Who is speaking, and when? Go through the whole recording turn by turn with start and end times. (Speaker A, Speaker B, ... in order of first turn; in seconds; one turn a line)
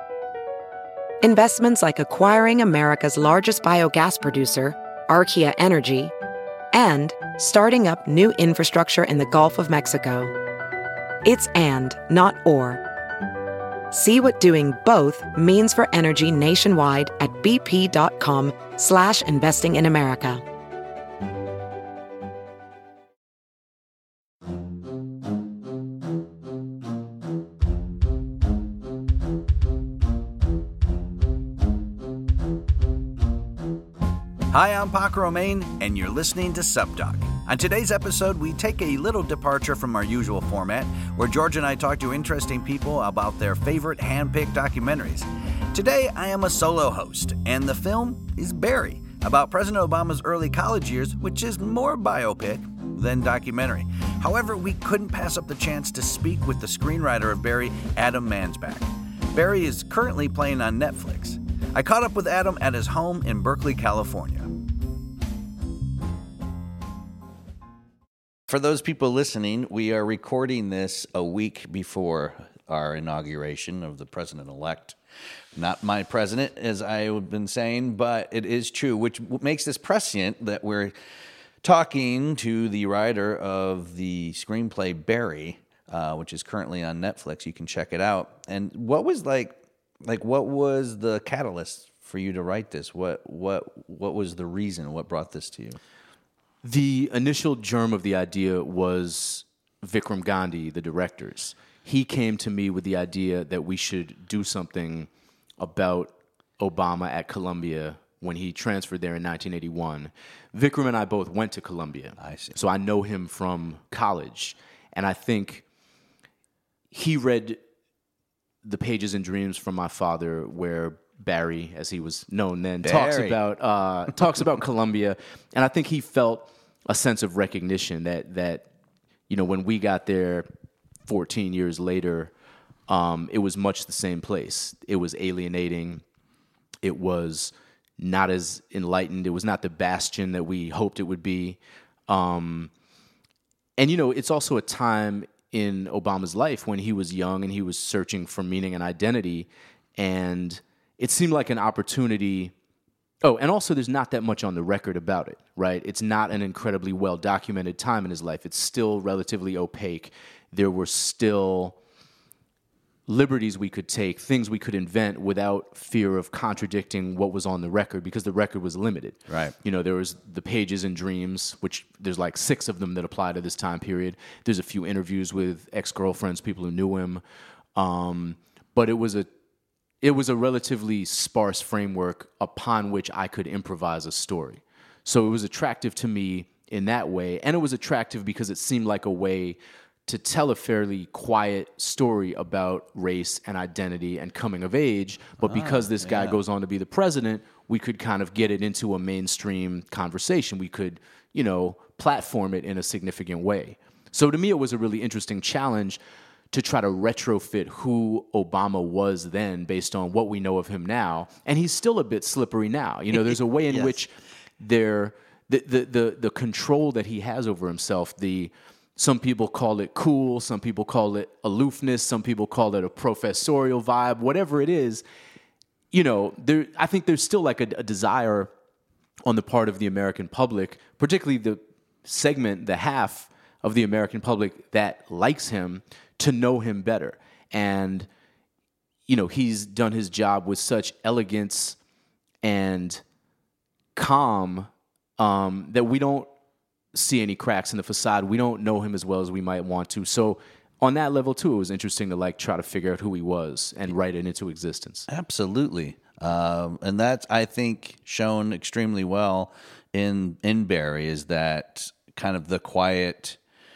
Speaker A: 1.2-6.1
Speaker A: 6.7-10.3
Speaker A: 11.2-12.8
Speaker A: 13.9-20.4
Speaker B: 34.5-64.5
Speaker B: 68.5-75.0
Speaker B: 75.5-80.9
Speaker B: 81.6-95.8
Speaker C: 96.6-115.6
Speaker B: 112.2-112.6
Speaker C: 116.9-117.6
Speaker C: 118.6-128.7
Speaker B: 122.8-123.4
Speaker C: 129.3-130.5
Speaker C: 131.1-132.3
Speaker C: 132.9-136.0
Speaker C: 136.8-142.7
Speaker C: 143.8-152.5
Speaker C: 153.2-161.8
Speaker C: 163.1-177.2
Speaker B: 169.3-169.5
Speaker C: 177.7-179.3
Speaker C: 180.0-206.0
Speaker B: 195.4-196.4
Speaker C: 206.5-225.0
Speaker B: 213.1-213.9
Speaker C: 225.9-228.5
Speaker C: 229.2-238.1
Speaker C: 239.1-241.8
Speaker C: 242.4-243.0
Speaker C: 243.9-246.3
Speaker C: 246.9-255.1
Speaker B: 255.1-263.4